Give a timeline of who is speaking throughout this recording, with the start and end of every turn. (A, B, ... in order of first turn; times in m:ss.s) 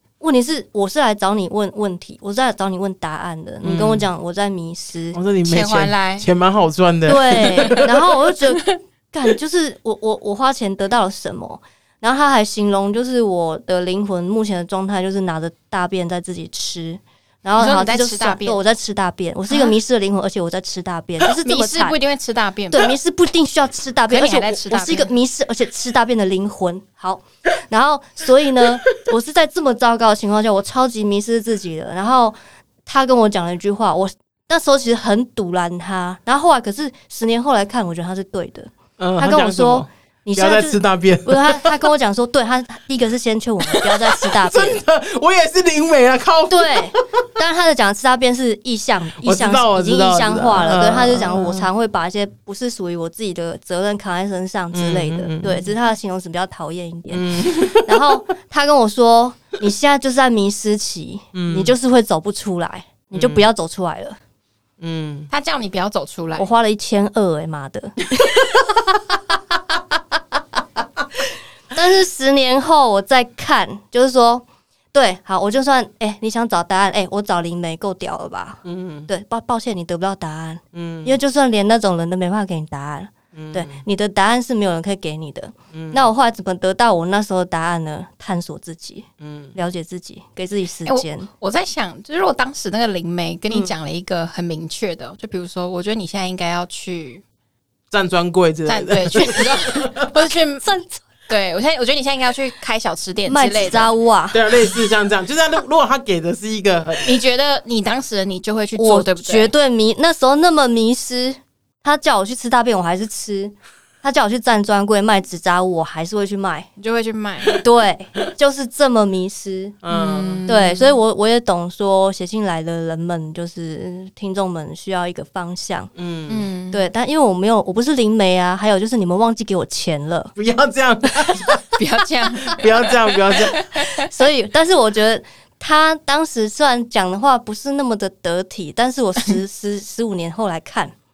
0:00.2-0:05.2 A
0:03.6-0:04.0 B
0:05.1-0:07.9 B
0:05.4-0:06.3 C
0:07.0-0:22.0 A
0:17.6-0:18.6 C
0:19.5-0:19.7 C
0:21.4-0:22.8 C
0:22.7-0:44.8 A
0:24.1-0:25.1 C
0:39.0-0:41.7 B
0:43.8-0:47.0 B
0:46.5-1:04.2 A
0:49.2-0:51.7 B
0:54.7-0:55.7 B
0:57.1-0:58.0 B
1:01.3-1:01.8 B
1:03.1-1:03.5 B
1:04.8-1:05.3 B
1:05.3-1:06.5 C
1:06.4-1:08.0 A
1:11.7-1:31.3 A
1:18.6-1:19.1 B
1:20.7-1:21.2 B
1:23.3-1:23.8 B
1:25.7-1:26.0 B
1:29.2-1:29.5 B
1:30.8-1:37.2 C
1:37.9-1:40.1 B
1:38.7-1:40.6 C
1:40.6-1:41.0 A
1:41.3-1:43.9 C
1:43.3-1:44.4 A
1:44.3-1:47.2 B
1:47.0-1:49.5 C
1:48.8-1:56.7 A
1:56.8-1:57.6 C
1:57.6-1:59.8 A
1:59.8-2:00.4 B
1:59.9-2:01.0 C
2:00.5-2:05.9 A
2:05.9-2:06.5 B
2:06.3-2:06.9 C
2:06.7-2:10.4 A
2:10.4-2:11.6 B
2:11.1-2:11.5 A
2:11.8-2:13.5 C
2:12.4-2:13.6 B
2:13.8-2:20.9 A